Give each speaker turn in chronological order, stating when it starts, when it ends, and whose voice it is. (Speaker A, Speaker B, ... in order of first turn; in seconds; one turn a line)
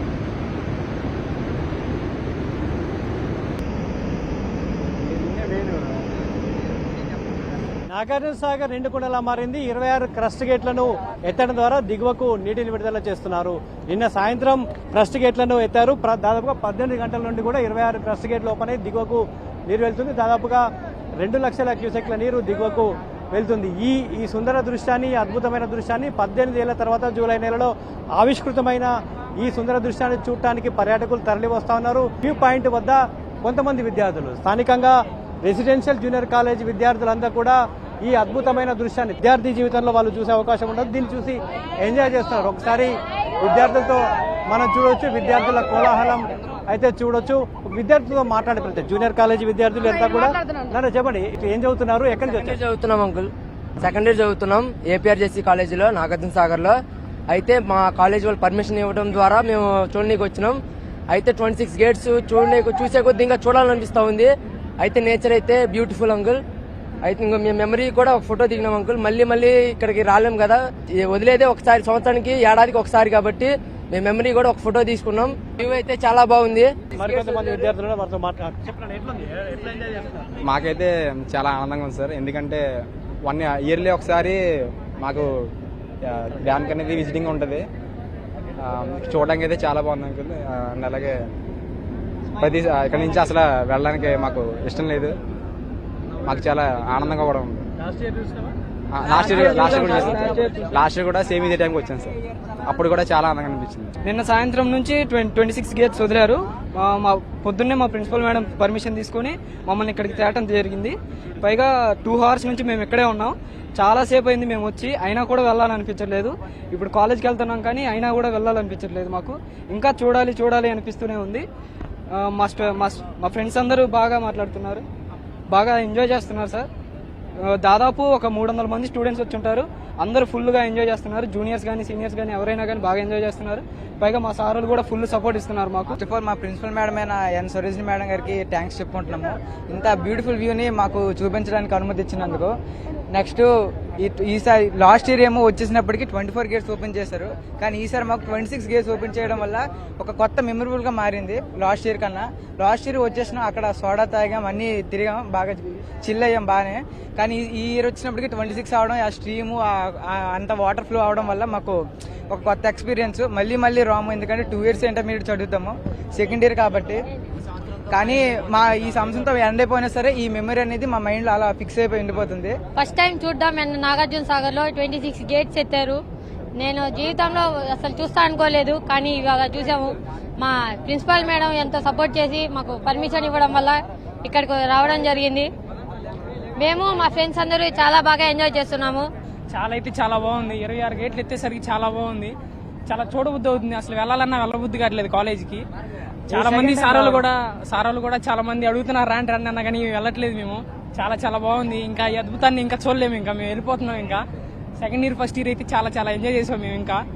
Speaker A: 7.9-20.6
Speaker A: 21.2-52.6
Speaker B: 52.3-66.4
Speaker B: 67.0-76.7
Speaker A: 76.9-80.3
Speaker C: 80.5-82.6
Speaker C: 83.2-84.4
Speaker C: 85.0-85.3
Speaker C: 86.0-87.6
Speaker C: 88.6-91.2
Speaker C: 92.4-95.2
Speaker C: 96.2-97.7
Speaker C: 98.9-102.1
Speaker D: 99.3-100.6
Speaker C: 102.7-103.9
Speaker D: 104.0-121.5
Speaker D: 122.1-124.8
Speaker D: 125.5-126.7
Speaker D: 127.6-135.9
Speaker E: 136.0-142.5
Speaker E: 143.1-167.0
Speaker E: 167.9-172.6
Speaker F: 172.8-176.0
Speaker F: 176.6-185.5
Speaker F: 186.6-189.1
Speaker G: 189.5-192.3
Speaker G: 192.9-195.6
Speaker G: 196.3-204.2
Speaker G: 204.8-207.0